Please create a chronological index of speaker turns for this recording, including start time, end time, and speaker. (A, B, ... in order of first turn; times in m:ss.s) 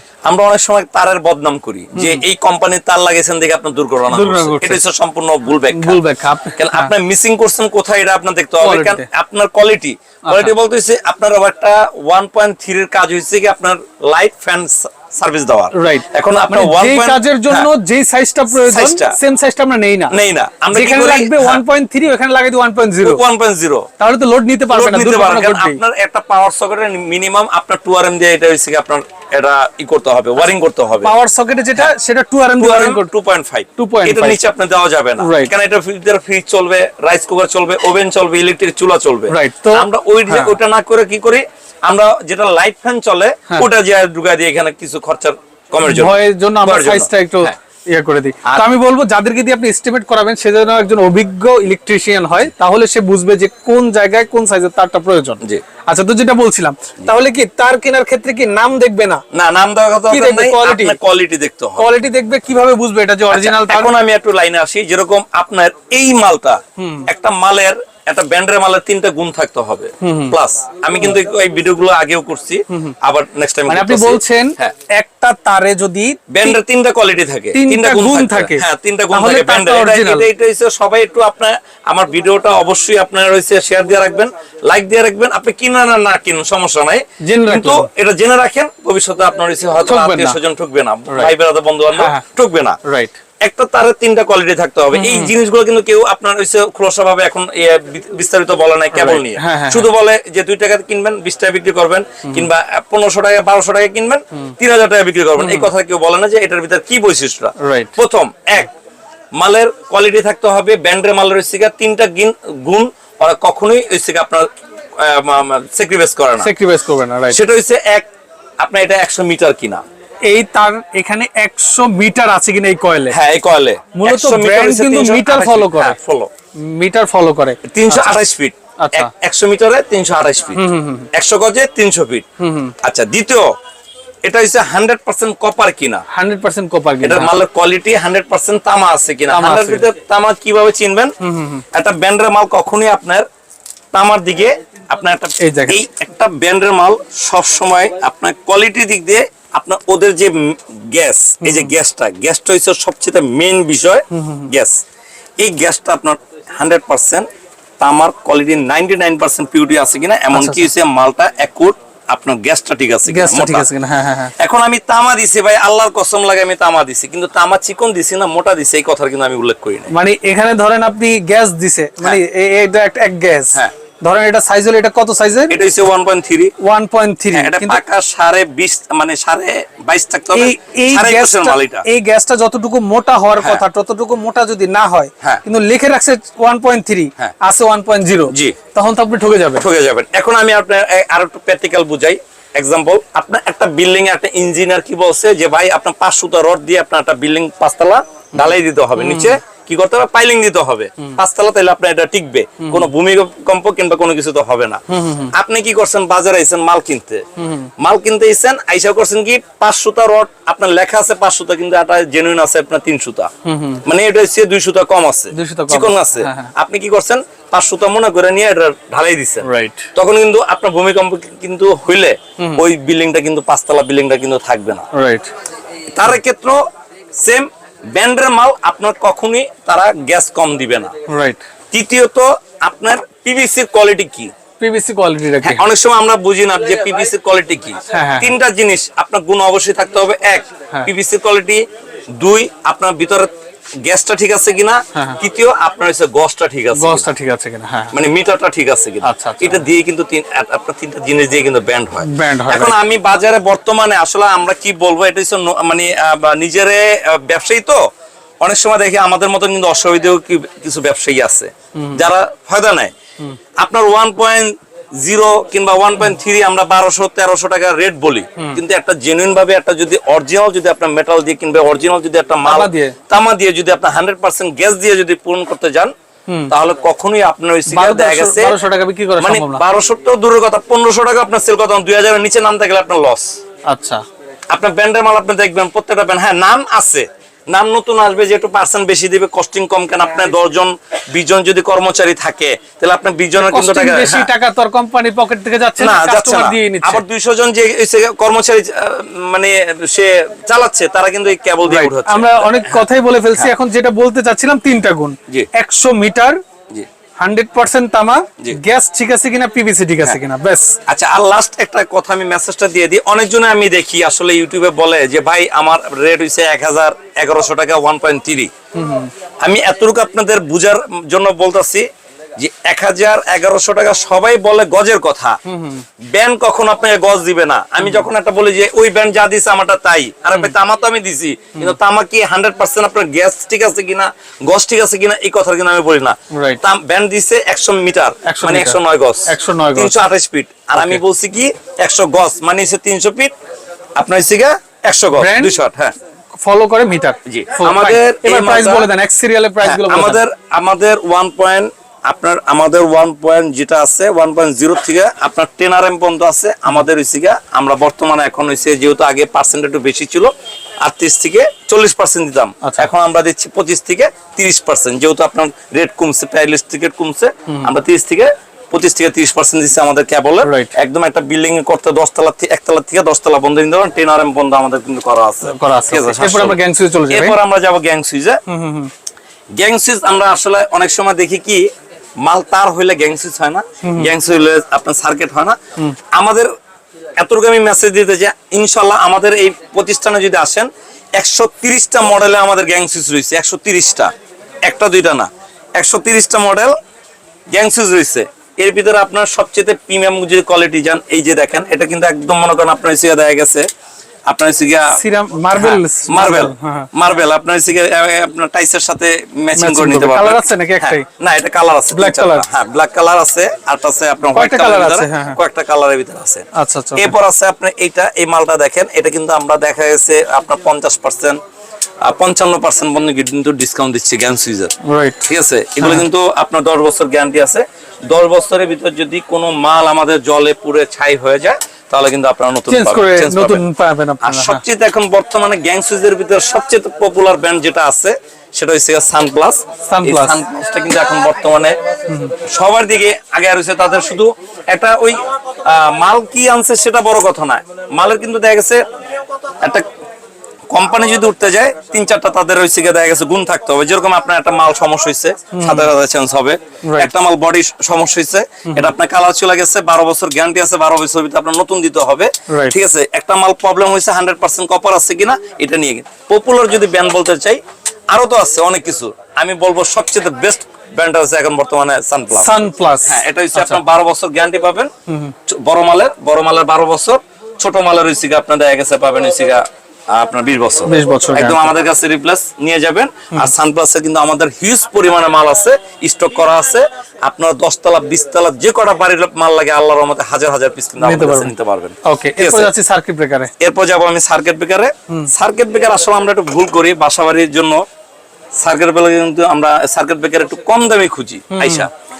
0:00.3-0:06.0 A
0:01.9-0:02.2 B
0:04.1-0:04.8 B
0:05.7-0:06.9 B
0:06.6-0:17.7 A
0:08.6-0:09.1 B
0:10.3-0:10.5 B
0:15.7-0:20.1 B
0:18.6-0:19.2 A
0:20.1-0:21.6 A
0:20.7-0:23.2 B
0:23.0-0:23.9 A
0:24.0-0:25.8 B
0:24.7-0:31.1 A
0:31.0-0:33.1 B
0:32.6-0:47.6 A
0:33.8-0:34.4 B
0:35.2-0:35.5 B
0:39.3-0:40.6 B
0:45.8-0:59.2 B
0:59.3-1:01.9 A
1:00.1-1:01.0 B
1:01.8-1:03.9 B
1:03.3-1:14.8 A
1:06.8-1:07.1 B
1:10.0-1:10.4 B
1:13.7-1:16.6 B
1:16.3-1:32.8 A
1:17.5-1:20.3 B
1:27.2-1:27.9 B
1:29.8-1:30.4 B
1:31.1-1:31.4 B
1:31.9-1:32.2 B
1:32.8-1:33.2 B
1:33.4-1:48.7 A
1:34.9-1:35.3 B
1:38.9-1:39.9 B
1:45.4-1:45.7 B
1:47.6-1:48.0 B
1:49.4-1:56.5 A
1:56.4-1:57.4 B
1:57.3-1:58.1 A
1:58.6-1:59.8 A
2:00.3-2:03.2 B
2:03.1-2:06.3 A
2:04.0-2:06.0 B
2:06.6-2:08.2 B
2:07.6-2:10.6 A
2:08.8-2:09.1 B
2:10.6-2:11.1 B
2:11.1-2:12.3 A
2:12.4-2:12.7 B
2:12.8-2:13.5 A
2:14.2-2:16.0 A
2:16.1-2:17.4 B
2:17.0-2:21.1 A
2:19.3-2:19.9 B
2:21.2-2:21.6 B
2:21.7-2:23.2 A
2:23.9-2:34.7 A
2:25.4-2:25.8 B
2:31.4-2:31.7 B
2:34.2-2:34.5 B
2:35.4-2:37.3 A
2:37.8-2:43.7 A
2:40.3-2:40.7 B
2:43.1-2:44.3 B
2:44.4-2:49.9 A
2:49.9-2:55.6 B
2:55.5-2:56.5 A
2:56.6-2:57.8 B
2:57.4-3:01.8 A
3:00.3-3:09.6 B
3:08.3-3:08.6 A
3:09.6-3:27.3 A
3:18.4-3:19.4 B
3:22.6-3:22.9 B
3:24.9-3:25.3 B
3:27.4-3:27.7 B
3:27.8-3:33.3 A
3:33.4-3:33.8 B
3:33.8-3:44.9 A
3:35.3-3:36.5 B
3:39.4-3:39.9 B
3:45.0-3:45.3 B
3:45.9-3:46.6 A
3:47.2-3:50.9 A
3:51.1-3:51.4 B
3:51.7-3:54.3 A
3:54.6-3:55.7 B
3:55.4-4:01.6 A
3:57.9-3:58.3 B
4:02.2-4:03.3 A
4:03.8-4:07.1 A
4:06.7-4:08.0 B
4:07.9-4:17.8 A
4:09.0-4:09.7 B
4:12.0-4:12.8 B
4:18.4-4:22.9 A
4:21.8-4:22.0 B
4:23.6-4:35.9 A
4:32.4-4:33.0 B
4:36.5-4:38.6 A
4:37.7-4:39.6 B
4:39.2-4:43.4 A
4:43.7-4:44.0 B
4:44.5-4:54.3 A
4:53.4-4:57.0 B
4:55.8-5:02.8 A
5:01.6-5:06.4 B
5:07.2-5:10.8 B
5:10.9-5:18.5 A
5:18.8-5:19.1 B
5:19.4-5:21.9 A
5:22.4-5:25.4 A
5:25.5-5:25.8 B
5:26.0-5:43.3 A
5:27.8-5:28.1 B
5:36.3-5:36.6 B
5:38.3-5:40.0 B
5:44.0-5:45.9 A
5:45.2-5:45.6 B
5:46.4-5:50.2 B
5:47.3-5:48.9 A
5:49.6-6:16.6 A
6:10.4-6:10.7 B
6:15.4-6:17.4 B
6:17.1-6:18.4 A
6:18.5-6:18.9 B
6:19.5-6:21.7 A
6:22.2-6:25.6 A
6:23.8-6:24.1 B
6:26.1-6:26.5 A
6:27.2-6:34.1 A
6:34.6-6:36.7 A
6:37.5-6:43.7 A
6:44.3-6:45.0 A
6:44.9-6:46.9 B
6:45.6-7:01.4 A
6:49.6-6:51.0 B
6:51.9-6:52.5 B
6:54.3-6:55.4 B
6:56.6-6:57.2 B
7:02.0-7:04.7 A
7:04.8-7:06.0 B
7:05.2-7:13.6 A
7:12.7-7:14.6 B
7:14.2-7:21.8 A
7:19.9-7:20.4 B
7:22.5-7:28.8 A
7:29.6-7:29.9 A
7:30.7-7:52.5 A
7:35.5-7:35.9 B
7:36.9-7:37.1 B
7:42.5-7:42.8 B
7:52.3-7:53.8 B
7:53.0-7:54.9 A
7:55.1-7:55.3 B
7:55.5-8:12.7 A
8:00.9-8:01.7 B
8:11.0-8:11.5 B
8:12.0-8:13.5 B
8:13.6-8:17.8 A
8:18.6-8:21.9 A
8:21.5-8:21.9 B